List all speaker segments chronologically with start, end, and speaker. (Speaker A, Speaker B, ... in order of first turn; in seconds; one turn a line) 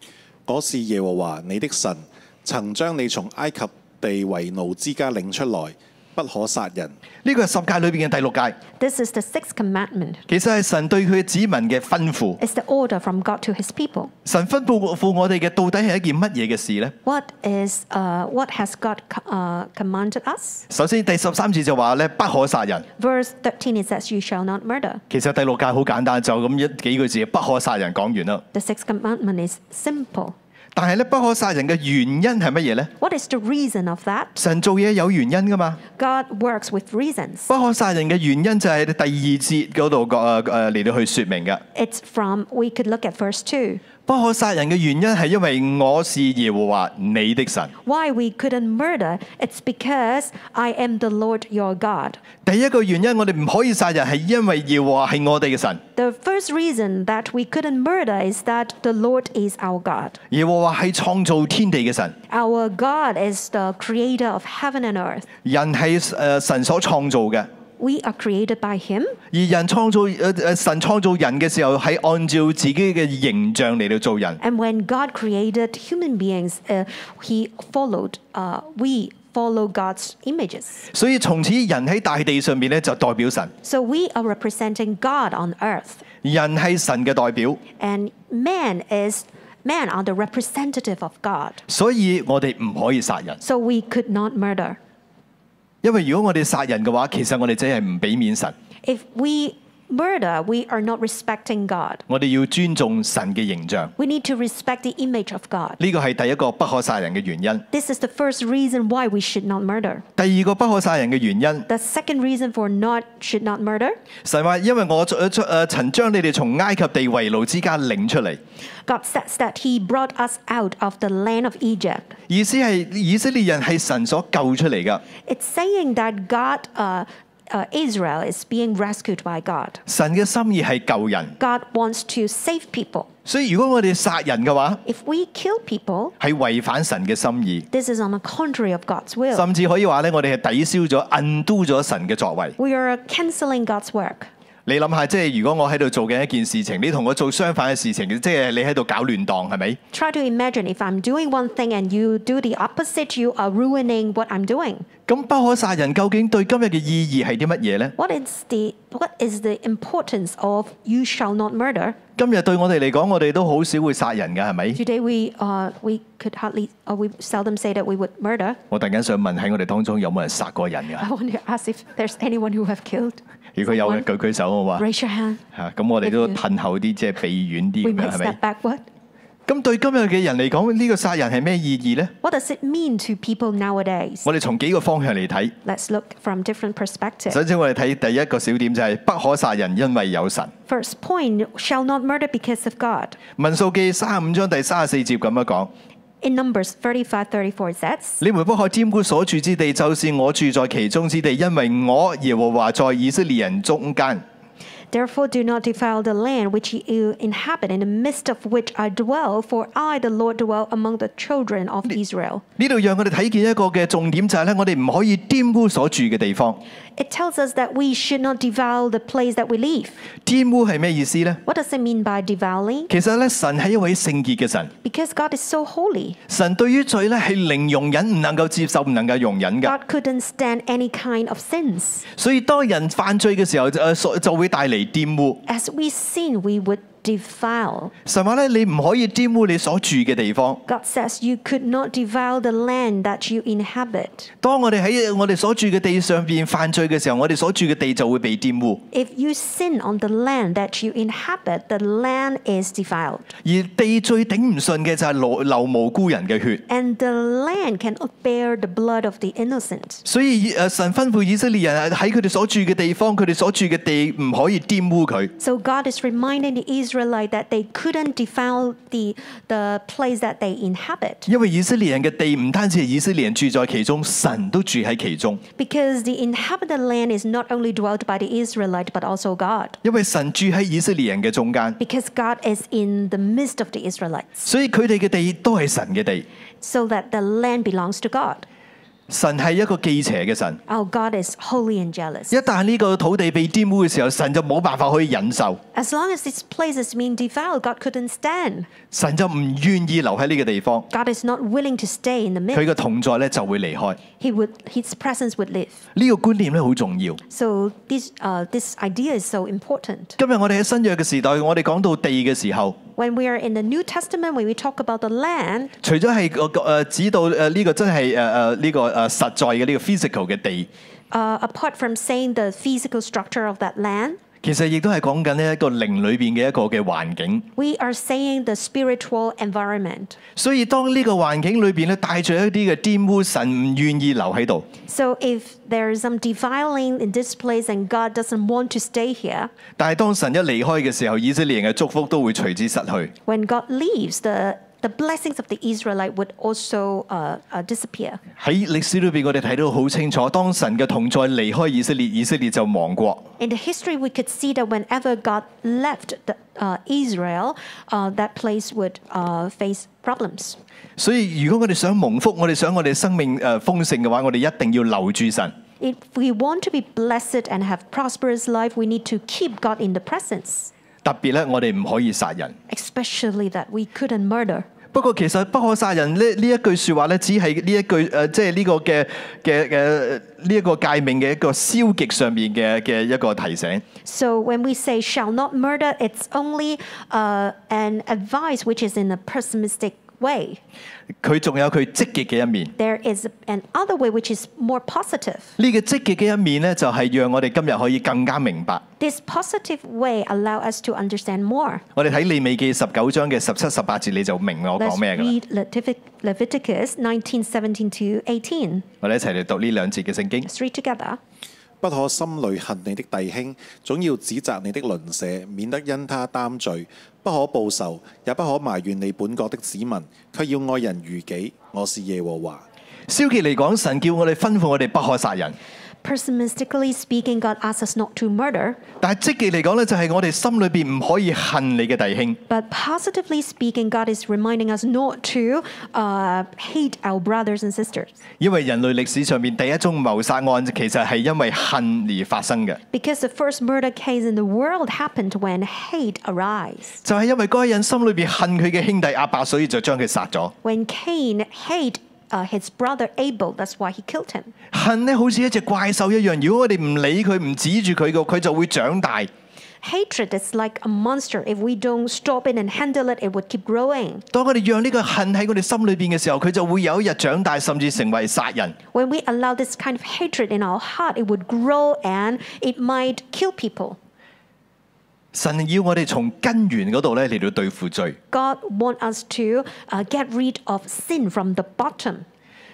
Speaker A: 0.5-6.9
Speaker B: 7.2-8.6
Speaker C: 8.8-10.2
Speaker B: 10.3-12.4
Speaker C: 12.4-14.1
Speaker B: 14.2-16.9
Speaker C: 17.0-20.6
Speaker B: 20.7-22.9
Speaker C: 23.0-25.0
Speaker B: 25.1-28.4
Speaker C: 28.5-30.3
Speaker B: 30.7-32.9
Speaker C: 33.0-34.3
Speaker B: 34.4-35.8
Speaker C: 36.0-37.5
Speaker B: 37.5-41.6
Speaker C: 41.7-43.8
Speaker B: 44.0-47.7
Speaker C: 47.8-52.2
Speaker B: 52.4-55.8
Speaker C: 56.0-60.2
Speaker B: 60.3-62.1
Speaker C: 62.3-65.2
Speaker B: 65.4-67.5
Speaker C: 67.8-69.2
Speaker B: 69.3-74.4
Speaker C: 74.4-80.9
Speaker B: 80.9-83.5
Speaker C: 83.6-86.0
Speaker B: 86.2-87.6
Speaker C: 87.8-91.6
Speaker B: 91.7-93.4
Speaker C: 93.4-94.8
Speaker B: 95.8-98.5
Speaker C: 98.8-102.0
Speaker B: 102.1-103.9
Speaker C: 104.0-105.8
Speaker B: 105.8-107.6
Speaker C: 107.7-110.0
Speaker B: 110.2-111.7
Speaker C: 111.7-114.0
Speaker B: 114.2-118.4
Speaker C: 118.9-122.2
Speaker B: 122.3-125.0
Speaker C: 125.2-129.8
Speaker B: 129.9-131.3
Speaker C: 131.4-133.1
Speaker B: 133.2-134.8
Speaker C: 134.8-136.1
Speaker B: 136.2-137.7
Speaker C: 137.7-139.4
Speaker B: 139.3-142.6
Speaker C: 142.6-144.3
Speaker B: 144.7-149.8
Speaker C: 149.9-154.9
Speaker B: 155.1-157.9
Speaker C: 158.0-162.0
Speaker B: 162.2-164.8
Speaker C: 164.8-168.6
Speaker B: 168.7-171.0
Speaker C: 171.0-174.1
Speaker B: 173.5-174.8
Speaker C: 174.8-175.4
Speaker B: 175.5-178.3
Speaker C: 176.0-176.4
Speaker C: 177.8-178.8
Speaker B: 179.5-182.1
Speaker C: 182.2-184.2
Speaker B: 184.2-185.5
Speaker C: 185.6-187.4
Speaker B: 187.3-190.5
Speaker C: 190.7-193.2
Speaker B: 193.4-195.7
Speaker C: 196.2-198.2
Speaker B: 198.2-204.2
Speaker C: 204.9-212.4
Speaker B: 212.6-216.6
Speaker C: 216.9-220.0
Speaker B: 220.2-221.4
Speaker C: 221.4-222.9
Speaker B: 222.9-224.7
Speaker C: 224.8-226.2
Speaker B: 226.3-229.7
Speaker C: 229.6-232.1
Speaker B: 232.1-235.4
Speaker C: 235.4-237.9
Speaker B: 238.1-240.6
Speaker C: 240.7-244.3
Speaker B: 244.4-248.8
Speaker C: 248.9-253.3
Speaker B: 253.4-256.6
Speaker C: 256.7-260.0
Speaker B: 260.0-265.3
Speaker C: 265.4-271.2
Speaker B: 271.2-275.4
Speaker C: 275.6-279.8
Speaker B: 279.8-281.8
Speaker C: 281.8-284.4
Speaker B: 284.4-286.2
Speaker C: 286.6-288.5
Speaker B: 289.1-290.6
Speaker C: 290.7-292.4
Speaker B: 292.3-295.6
Speaker C: 295.7-298.7
Speaker B: 298.9-300.9
Speaker C: 300.9-302.6
Speaker B: 302.5-304.0
Speaker C: 304.2-305.8
Speaker B: 305.9-307.2
Speaker C: 307.3-310.1
Speaker B: 310.2-312.8
Speaker C: 313.0-315.7
Speaker B: 315.8-320.7
Speaker C: 321.1-324.2
Speaker B: 324.4-327.5
Speaker C: 327.6-330.1
Speaker B: 330.4-334.7
Speaker C: 334.9-339.5
Speaker B: 339.8-343.1
Speaker C: 343.3-348.2
Speaker B: 348.4-353.3
Speaker C: 353.4-360.6
Speaker B: 361.0-365.5
Speaker C: 365.8-370.7
Speaker B: 371.0-372.6
Speaker C: 372.7-374.7
Speaker B: 374.9-383.8
Speaker C: 384.0-390.6
Speaker B: 391.2-392.7
Speaker C: 392.8-395.5
Speaker B: 395.6-398.8
Speaker C: 399.0-401.8
Speaker B: 401.9-405.3
Speaker C: 404.8-408.9
Speaker B: 409.0-410.5
Speaker C: 410.4-411.2
Speaker A: 411.8-422.6
Speaker B: 423.1-425.6
Speaker C: 426.0-428.8
Speaker B: 429.0-432.4
Speaker C: 432.5-438.2
Speaker B: 438.4-442.8
Speaker C: 442.9-447.0
Speaker B: 447.0-450.5
Speaker C: 450.6-454.5
Speaker B: 454.7-459.3
Speaker C: 459.8-464.2
Speaker B: 464.3-468.8
Speaker C: 468.9-474.0
Speaker B: 475.3-478.2
Speaker C: 478.3-482.2